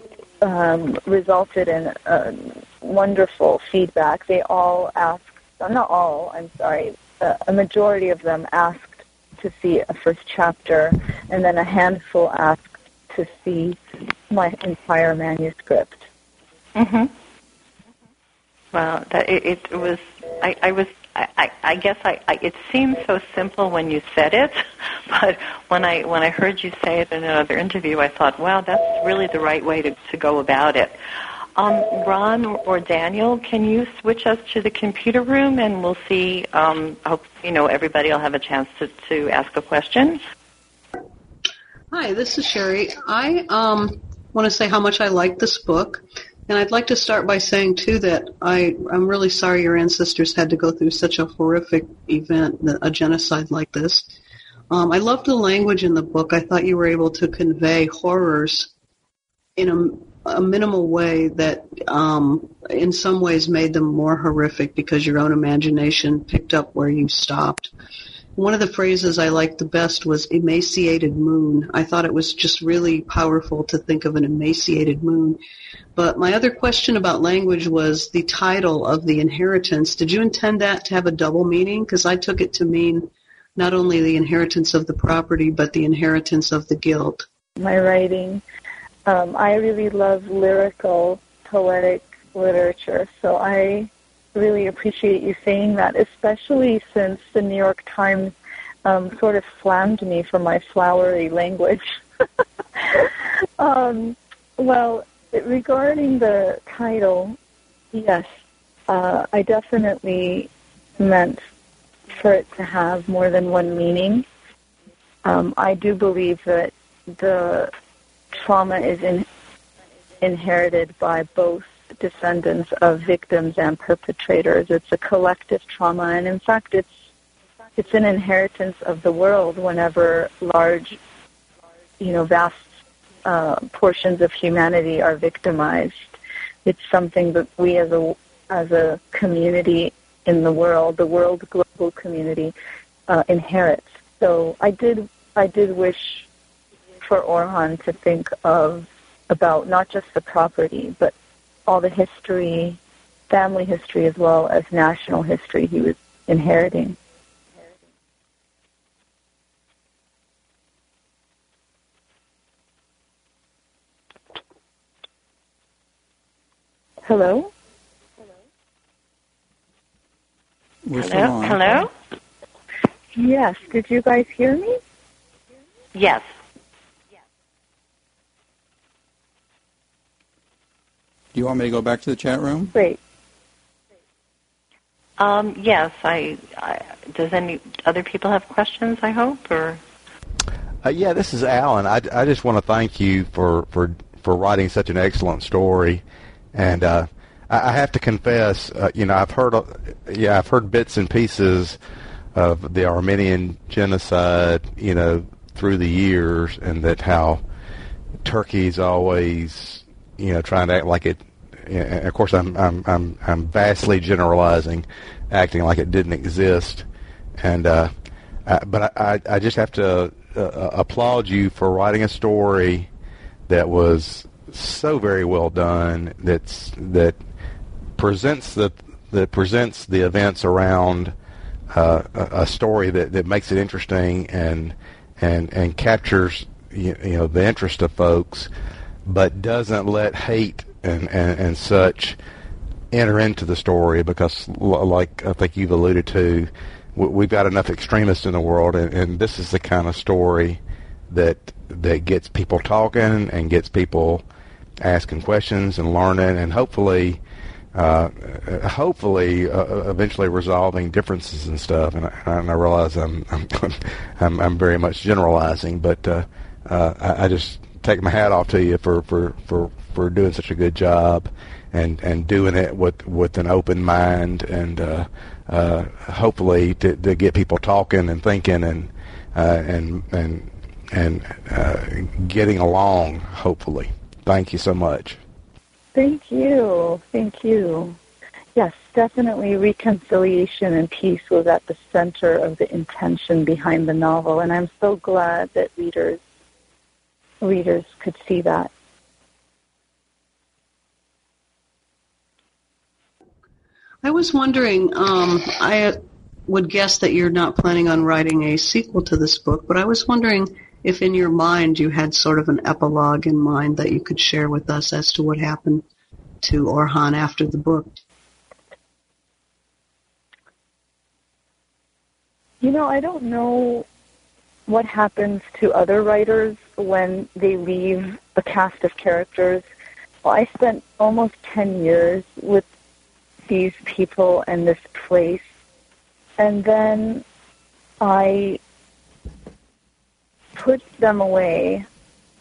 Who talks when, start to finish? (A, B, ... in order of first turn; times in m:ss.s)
0:00.4-0:16.1 A
0:16.8-0:17.1 B
0:18.7-0:31.0 B
0:31.6-0:40.2 B
0:41.9-0:54.0 C
0:54.7-0:58.7 C
0:59.6-1:07.7 C
1:08.4-1:15.4 C
1:16.0-1:27.2 C
1:27.6-1:28.4 A
1:29.0-1:41.8 A
1:42.7-1:47.4 A
1:47.9-1:48.3 A
1:48.9-1:51.4 A
1:52.1-1:54.2 A
1:55.2-1:57.7 A
1:58.3-1:59.3 A
2:00.2-2:07.0 A
2:07.8-2:11.0 A
2:12.0-2:12.7 A
2:13.2-2:22.5 A
2:23.1-2:26.3 A
2:27.0-2:31.1 A
2:31.6-2:37.0 A
2:47.0-2:47.5 A
2:50.8-2:51.8 D
2:51.0-2:51.9 B
2:53.1-2:54.8 A
2:55.9-2:56.3 B
3:01.3-3:02.7 D
3:02.7-3:03.0 A
3:05.2-3:09.8 B
3:10.8-3:16.0 E
3:16.5-3:21.8 E
3:22.3-3:27.4 E
3:28.2-3:36.8 E
3:37.4-3:37.9 E
3:38.4-3:42.9 E
3:43.5-3:47.2 E
3:48.0-3:51.1 E
3:51.7-3:58.5 E
3:59.0-4:02.2 E
4:02.9-4:14.2 E
4:14.8-4:17.2 E
4:17.7-4:45.2 E
4:45.9-4:48.0 A
4:48.5-4:56.2 A
4:57.4-4:58.7 A
5:04.0-5:15.8 C
5:16.4-5:18.0 C
5:22.6-5:23.9 A
5:24.7-5:29.6 A
5:30.2-5:32.6 A
5:33.5-5:35.5 A
5:36.4-5:37.2 A
5:38.0-5:38.6 A
5:40.5-5:41.8 A